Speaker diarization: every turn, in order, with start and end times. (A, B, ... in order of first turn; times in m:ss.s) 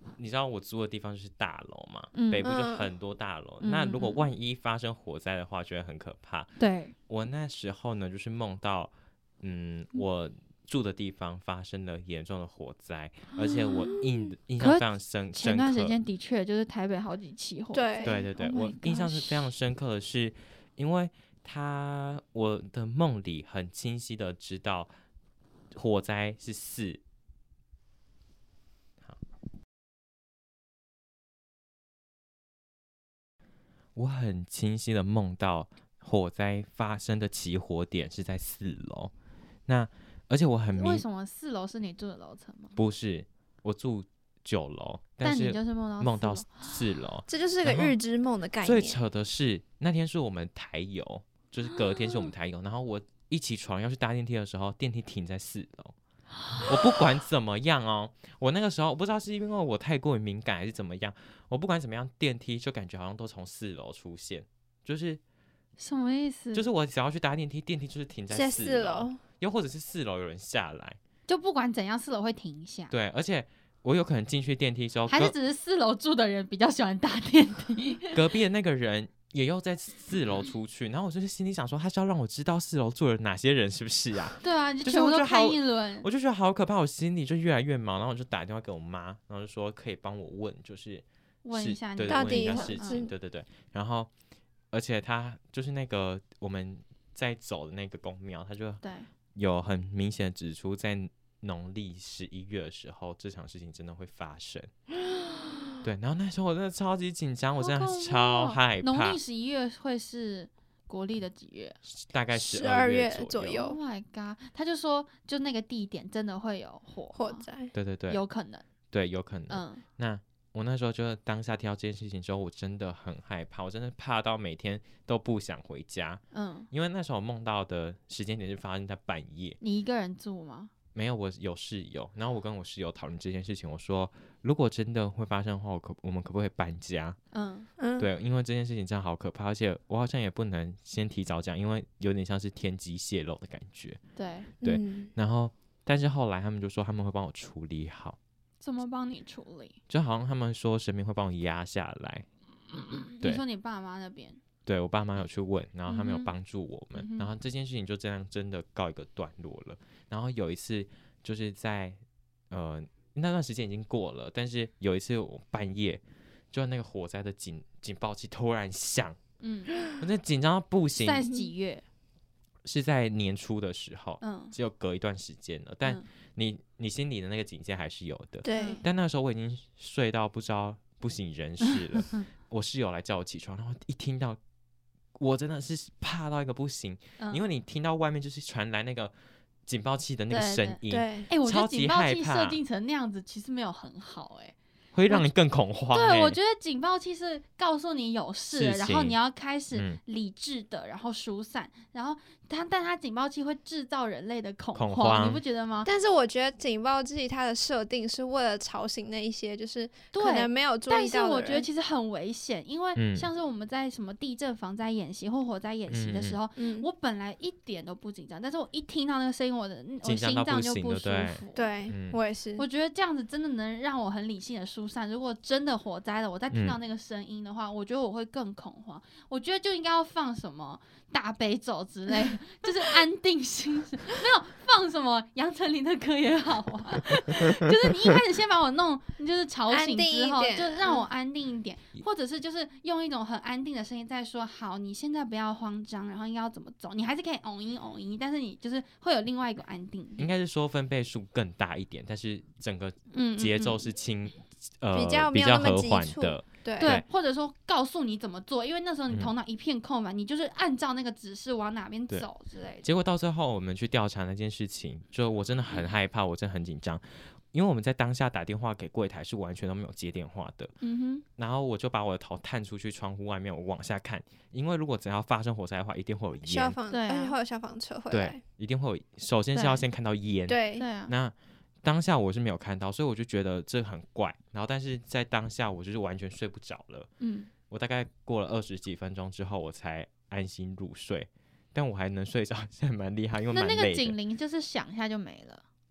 0:00.2-0:06.5 A
0:02.1-0:02.5 B
0:02.4-0:02.9 C
0:03.6-0:04.2 B
0:06.6-0:06.9 B
0:07.1-0:16.0 A
0:13.4-0:14.0 B
0:14.6-0:19.5 B
0:17.7-0:18.2 C
0:18.0-0:24.9 A
0:25.7-0:27.0 A
0:34.0-0:39.1 A
0:39.7-0:41.0 A
0:40.7-0:42.8 B
0:42.8-0:48.0 A
0:45.2-0:46.5 B
0:47.3-0:49.0 C
0:48.6-0:55.9 A
0:51.8-0:52.3 B
0:56.4-0:56.8 B
0:56.6-1:05.2 A
1:05.8-1:06.7 B
1:06.5-1:11.0 A
1:08.3-1:09.2 C
1:11.3-1:12.9 B
1:12.9-1:15.3 A
1:15.1-1:18.2 B
1:18.1-1:34.1 A
1:24.4-1:26.1 B
1:31.4-1:33.1 B
1:32.1-1:33.1 C
1:34.7-1:38.8 A
1:38.8-1:39.1 B
1:39.4-1:44.7 A
1:45.0-1:45.7 C
1:45.8-1:49.2 A
1:47.6-1:51.8 B
1:51.9-1:53.6 A
1:52.3-1:53.8 C
1:53.6-1:57.4 B
1:57.1-1:57.7 C
1:57.7-1:58.2 A
1:58.1-1:58.6 B
1:58.9-2:09.6 A
1:59.5-1:59.8 B
2:06.3-2:06.7 B
2:09.6-2:10.7 B
2:11.0-2:17.2 A
2:17.3-2:17.7 B
2:17.8-2:18.1 C
2:18.0-2:24.0 A
2:24.2-2:24.5 B
2:24.6-2:25.1 C
2:24.6-2:28.2 A
2:28.6-2:29.8 B
2:29.9-2:32.3 A
2:32.9-2:34.4 B
2:34.7-2:42.0 A
2:35.9-2:36.3 B
2:36.9-2:37.3 B
2:42.5-2:49.2 A
2:49.4-2:49.7 B
2:50.0-2:51.3 A
2:51.0-2:51.8 B
2:52.6-3:04.4 A
2:54.2-2:54.6 B
2:58.4-2:58.8 C
2:58.5-2:58.8 B
3:05.2-3:09.1 A
3:07.2-3:07.5 B
3:09.7-3:12.6 A
3:10.3-3:14.6 B
3:10.9-3:11.3 C
3:14.9-3:16.4 A
3:15.9-3:25.9 B
3:18.5-3:19.2 A
3:19.7-3:20.0 A
3:24.8-3:25.4 A
3:25.8-3:31.7 C
3:30.1-3:41.7 B
3:33.0-3:33.3 A
3:35.9-3:36.4 A
3:36.6-3:36.9 C
3:40.0-3:42.2 A
3:41.6-3:42.7 C
3:42.6-4:10.3 B
3:46.5-3:46.8 A
3:59.7-4:01.1 C
4:10.2-4:17.0 A
4:13.1-4:13.9 B
4:14.9-4:17.0 C
4:16.8-4:22.9 B
4:22.8-4:30.7 A
4:30.8-4:31.2 B
4:31.4-4:36.8 A
4:36.4-4:38.4 C
4:36.9-4:37.4 B
4:38.1-4:47.1 A
4:39.5-4:39.9 B
4:40.5-4:40.9 C
4:40.8-4:41.1 B
4:47.2-4:47.5 B
4:47.7-4:54.2 A
4:53.5-4:55.6 B